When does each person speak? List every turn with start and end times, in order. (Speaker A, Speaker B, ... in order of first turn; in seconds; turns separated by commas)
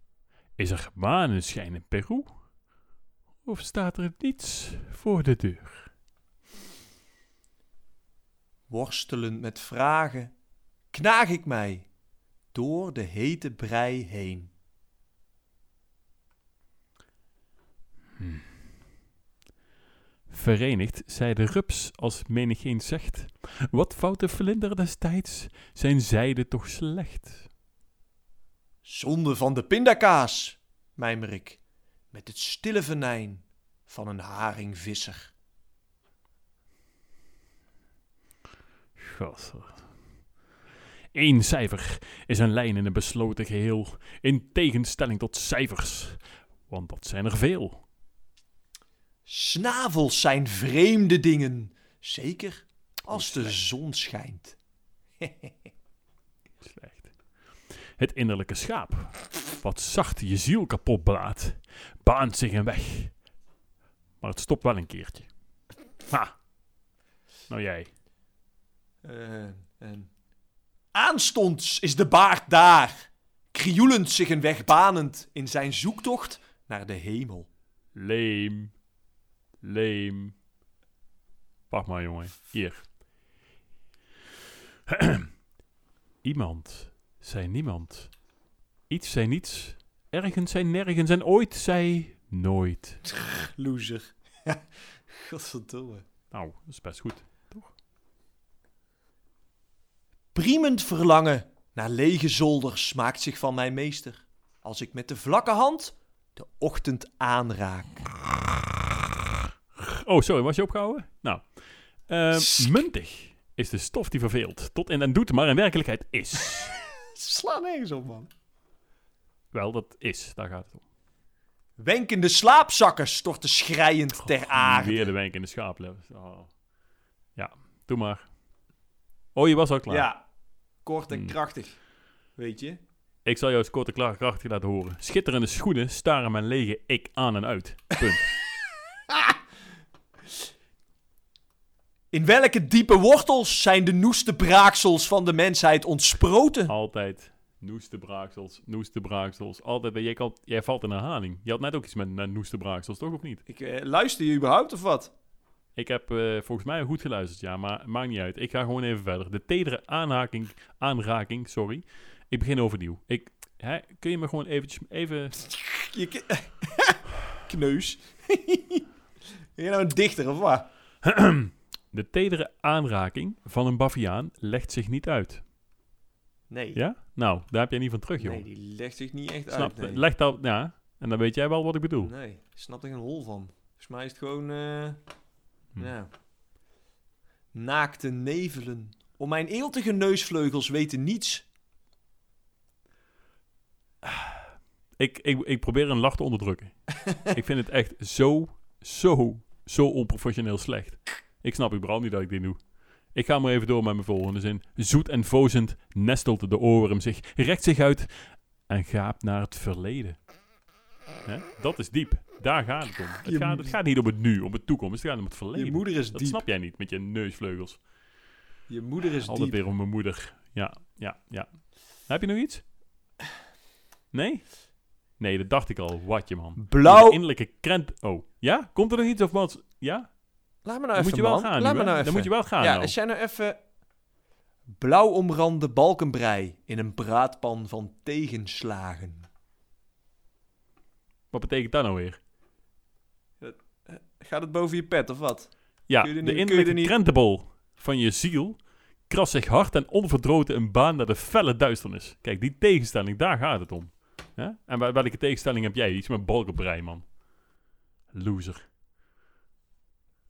Speaker A: 0.6-2.5, Speaker A: 3.4-5.9, Speaker B: 8.7-10.3, Speaker B: 10.9-11.9, Speaker B: 12.5-14.5, Speaker A: 18.2-18.5, Speaker A: 20.3-27.5, Speaker B: 28.8-31.6, Speaker B: 32.1-35.3, Speaker A: 39.0-39.9, Speaker A: 41.1-47.8, Speaker B: 49.2-54.6, Speaker A: 53.1-53.6, Speaker B: 55.2-55.5, Speaker A: 56.6-57.2, Speaker A: 57.7-63.2, Speaker A: 64.2-65.3, Speaker A: 66.1-66.3, Speaker A: 67.5-67.9, Speaker B: 69.0-70.1, Speaker B: 70.9-77.5, Speaker A: 77.9-78.7, Speaker A: 79.6-80.4, Speaker A: 81.7-82.9, Speaker A: 84.9-85.2, Speaker A: 86.2-88.2, Speaker A: 88.9-93.0, Speaker B: 93.1-94.6, Speaker B: 95.1-96.0, Speaker A: 96.3-97.7, Speaker B: 100.3-108.1, Speaker A: 109.8-116.8, Speaker B: 112.3-112.7, Speaker B: 117.1-118.3, Speaker A: 119.5-120.8, Speaker B: 121.8-125.1, Speaker A: 124.2-126.5, Speaker A: 127.3-128.3, Speaker A: 129.3-130.1, Speaker B: 129.9-131.8, Speaker A: 131.1-131.3, Speaker B: 132.3-132.8, Speaker A: 133.2-138.3, Speaker B: 142.1-146.7, Speaker A: 146.7-153.4, Speaker B: 153.5-155.1, Speaker A: 155.8-165.4, Speaker B: 165.4-168.8, Speaker B: 169.6-170.7, Speaker A: 171.0-175.4, Speaker B: 176.5-176.8, Speaker A: 176.7-178.4, Speaker B: 178.2-180.1, Speaker A: 179.5-182.1, Speaker B: 182.0-185.0, Speaker B: 185.8-186.1, Speaker B: 187.5-191.4, Speaker A: 194.9-210.2, Speaker A: 211.2-217.9, Speaker B: 213.2-213.8, Speaker B: 215.5-216.4, Speaker B: 218.7-219.6, Speaker A: 219.2-222.7, Speaker A: 224.1-230.2, Speaker B: 226.6-227.2, Speaker B: 230.6-233.6, Speaker A: 230.9-232.9, Speaker B: 234.7-239.3, Speaker A: 241.3-242.2, Speaker B: 243.4-246.9, Speaker A: 245.9-257.2, Speaker A: 258.1-258.6